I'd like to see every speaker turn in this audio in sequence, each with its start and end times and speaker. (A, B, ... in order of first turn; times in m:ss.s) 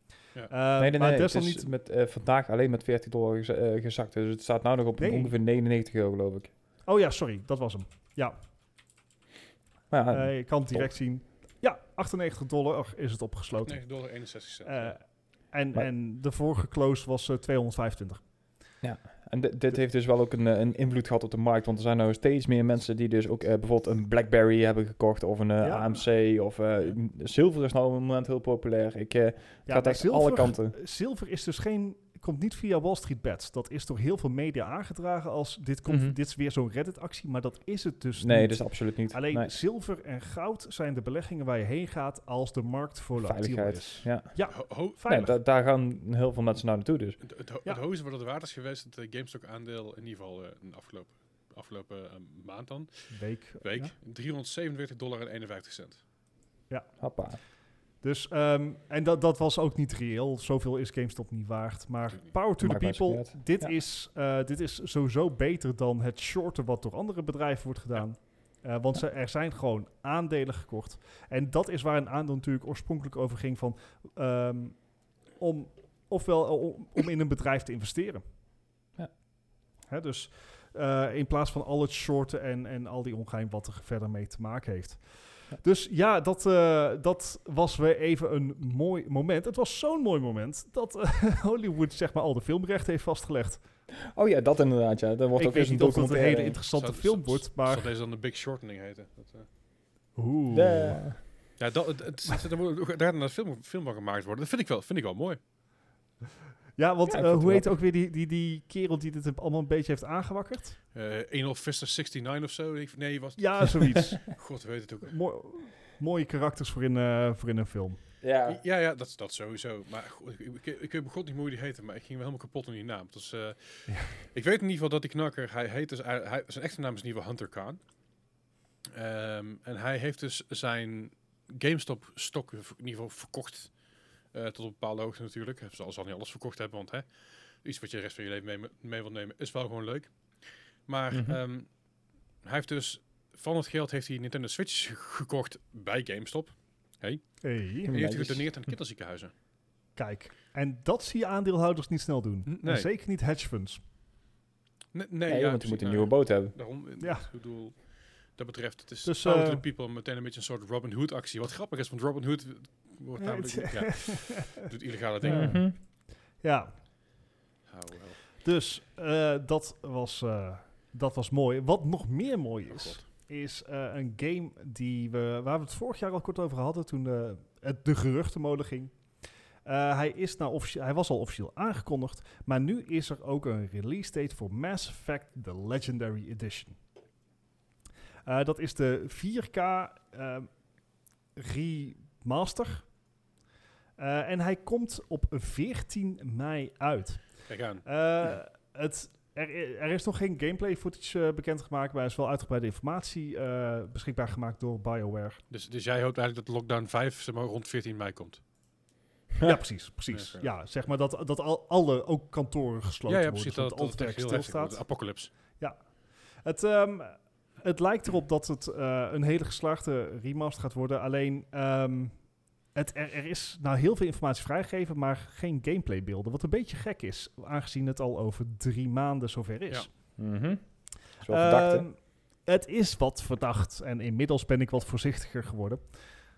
0:00.5-0:01.7 A
0:00.8-0:06.5 B
0:05.0-0:05.3 A
0:06.8-0:08.4 A
0:09.9-0:10.9 B
0:10.1-0:13.8 A
0:13.6-0:15.0 C
0:14.6-0:15.0 A
0:15.5-0:18.2 A
0:18.8-0:30.7 B
0:25.6-0:26.0 A
0:29.7-0:45.3 A
0:35.9-0:36.1 B
0:38.2-0:39.5 B
0:43.2-0:44.3 B
0:44.5-0:45.0 C
0:45.0-0:47.2 B
0:47.2-0:53.1 C
0:53.1-0:53.9 A
0:53.6-0:56.0 C
0:57.0-0:57.4 B
0:58.0-1:14.8 A
1:02.6-1:03.7 B
1:15.4-1:18.2 A
1:19.9-1:33.6 A
1:34.1-1:36.6 B
1:35.4-1:37.9 A
1:36.7-1:39.5 C
1:40.2-1:41.0 A
1:40.5-1:41.2 B
1:41.6-1:45.4 C
1:46.8-1:50.8 A
1:47.1-1:47.6 B
1:50.9-1:55.1 C
1:53.4-1:54.4 A
1:55.0-1:58.0 A
1:58.2-1:58.6 B
1:58.5-2:07.8 C
2:08.9-2:13.7 C
2:14.3-2:17.1 C
2:17.6-2:20.1 C
2:20.9-2:21.7 C
2:21.1-2:21.4 B
2:22.4-2:27.2 C
2:27.4-2:27.9 A
2:27.8-2:28.5 B
2:27.9-2:29.3 C
2:30.0-2:33.8 A
2:32.5-2:32.9 C
2:34.9-2:45.6 C
2:35.3-2:36.5 B
2:37.0-2:37.3 A
2:39.0-2:39.6 A
2:43.2-2:44.7 A
2:45.2-2:45.8 B
2:45.2-2:45.8 A
2:46.4-2:46.7 A
2:47.7-2:48.2 C
2:48.4-2:58.9 A
2:52.7-2:53.0 C
2:59.6-3:06.8 A
3:08.2-3:10.5 A
3:11.4-3:12.9 A
3:14.0-3:25.4 A
3:17.5-3:17.8 C
3:25.5-3:28.4 C
3:29.4-3:34.8 A
3:30.1-3:30.5 C
3:33.1-3:35.3 C
3:35.6-3:42.2 A
3:42.7-3:49.9 A
3:50.2-3:50.6 B
3:51.2-3:51.8 B
3:51.3-3:55.8 A